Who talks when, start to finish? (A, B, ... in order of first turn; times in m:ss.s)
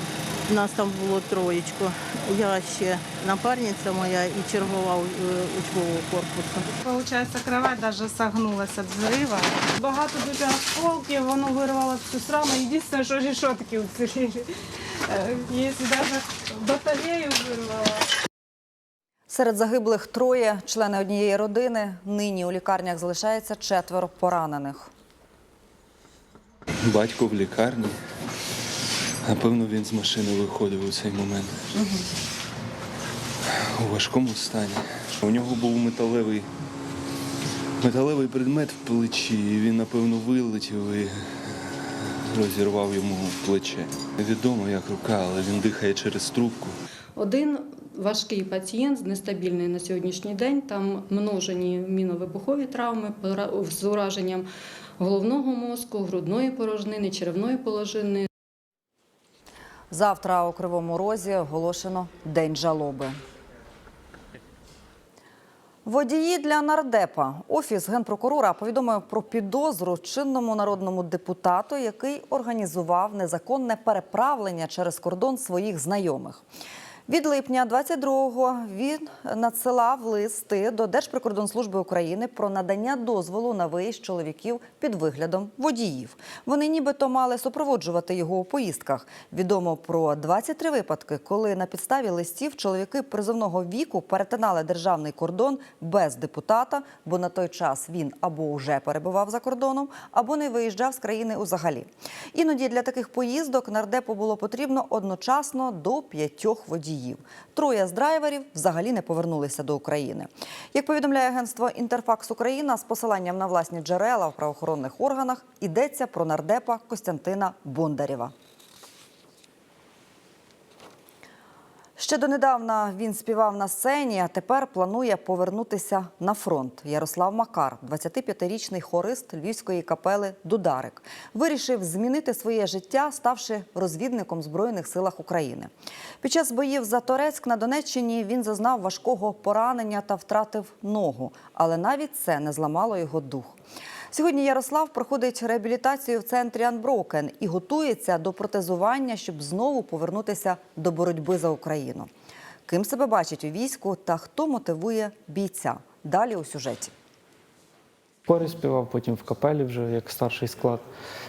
0:00.5-0:06.7 A
0:06.8-0:14.4 B
0:15.1-0:18.0 B
0:19.3-0:24.9 C
0:26.8-0:28.0 D
0:29.2-0:31.6 D
0:33.7-0:36.5 D
0:37.8-0:41.6 D
0:42.3-0:46.8 D
0:47.2-0:54.4 E
0:55.0-0:58.3 E
0:59.9-1:03.2 C
1:05.8-1:16.4 C
1:17.1-1:58.3 C
2:02.0-2:15.7 C
2:16.2-2:23.5 C
2:24.1-2:32.1 C
2:32.7-2:36.9 C
2:38.3-2:40.8 F